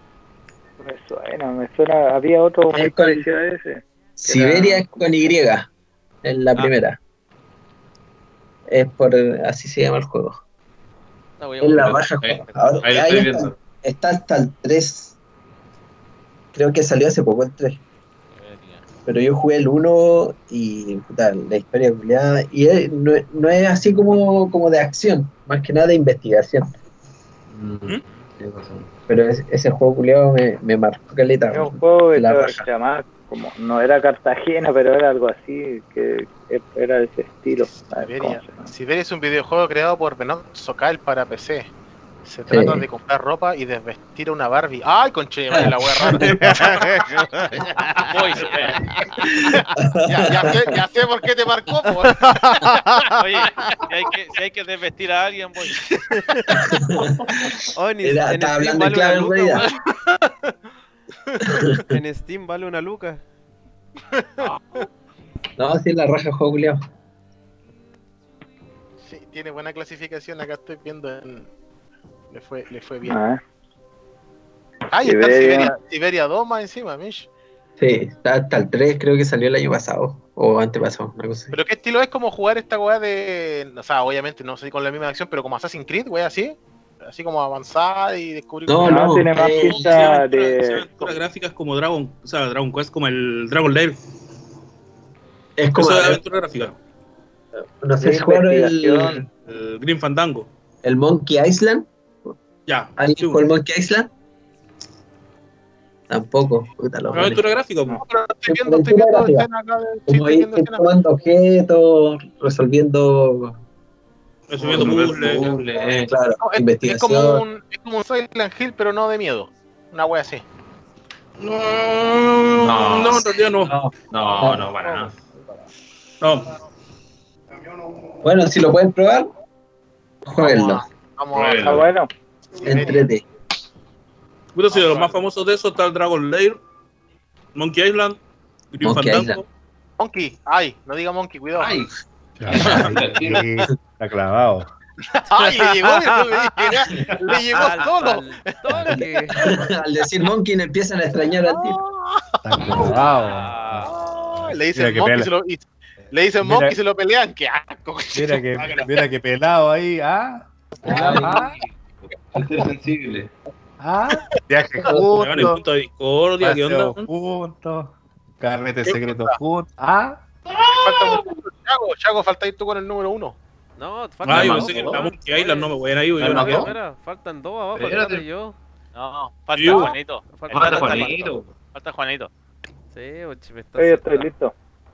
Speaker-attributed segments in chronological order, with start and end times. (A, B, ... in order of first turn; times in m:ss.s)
0:00.8-0:04.9 A
0:02.7-0:03.2 B
0:04.2-0:05.7 B
0:06.2-0:07.0 B
0:08.7-0:10.4 B
0:11.4-0:12.9 C
0:11.6-0:15.2 B
0:11.8-0:13.6 D
0:16.5-0:17.8 B
0:18.4-0:18.8 C
0:19.1-0:26.7 B
0:27.5-0:28.9 D
0:29.1-0:32.7 B
0:31.5-0:38.7 A
0:37.7-0:41.7 E
0:42.2-0:47.0 E
0:42.5-0:42.8 B
0:46.2-0:48.1 F
0:48.1-0:48.7 C
0:48.4-0:48.8 D
0:49.3-0:50.7 B
0:49.4-0:52.6 E
0:52.3-0:53.0 F
0:53.2-0:55.9 C
0:56.1-0:56.5 F
0:56.5-0:59.7 B
0:57.8-0:59.7 F
0:59.7-1:00.5 E
1:01.4-1:01.9 B
1:01.7-1:03.2 F
1:04.1-1:04.5 E
1:05.6-1:06.8 B
1:09.0-1:11.5 E
1:12.3-1:13.2 E
1:13.1-1:13.4 A
1:14.9-1:17.3 E
1:15.0-1:15.7 A
1:17.8-1:21.6 B
1:21.5-1:29.2 E
1:28.7-1:30.0 B
1:28.8-1:31.2 A
1:29.4-1:34.0 G
1:35.6-1:36.2 B
1:35.7-1:36.8 G
1:37.8-1:39.2 B
1:38.0-1:39.3 A
1:39.3-1:40.5 G
1:40.8-1:41.9 B
1:42.7-1:43.4 G
1:43.0-1:44.1 B
1:46.1-1:47.4 B
1:47.1-1:48.0 G
1:48.0-1:50.9 E
1:48.5-1:49.5 B
1:50.1-1:53.6 B
1:54.5-1:55.5 G
1:54.6-1:55.1 B
1:54.6-1:56.2 D
1:55.9-1:57.4 B
1:56.4-2:00.4 E
2:01.5-2:02.0 D
2:01.8-2:03.7 G
2:02.5-2:05.2 D
2:04.4-2:04.7 B
2:06.2-2:06.5 G
2:08.2-2:09.3 B
2:10.2-2:10.8 B
2:10.4-2:11.9 E
2:11.3-2:11.8 D
2:11.6-2:12.1 A
2:12.6-2:13.1 E
2:12.6-2:13.2 B
2:14.5-2:16.6 G
2:14.7-2:15.2 E
2:17.6-2:18.2 G
2:18.7-2:19.4 G
2:18.8-2:19.4 B
2:20.0-2:21.8 E
2:21.6-2:21.9 D
2:22.4-2:24.7 H
2:22.4-2:23.5 D
2:25.2-2:28.6 E
2:27.5-2:29.5 F
2:29.4-2:31.8 B
2:31.5-2:32.9 E
2:32.4-2:33.9 H
2:33.2-2:33.9 C
2:33.9-2:38.5 E
2:34.7-2:35.3 H
2:36.4-2:36.8 H
2:38.2-2:41.6 H
2:38.6-2:38.9 G
2:40.8-2:41.8 D
2:40.9-2:41.4 B
2:42.3-2:43.3 D
2:43.8-2:45.6 H
2:45.1-2:47.1 G
2:46.4-2:50.2 H
2:48.8-2:49.4 E
2:50.5-2:51.2 D
2:50.8-2:53.4 E
2:53.8-2:58.6 F
2:54.2-2:56.7 G
2:54.3-2:55.0 D
2:56.2-2:56.6 D
2:56.2-2:56.7 H
2:57.7-2:58.2 D
2:59.0-3:02.3 C
2:59.5-3:00.0 G
3:00.3-3:01.3 F
3:00.5-3:01.5 D
3:02.9-3:04.3 F
3:03.8-3:04.5 A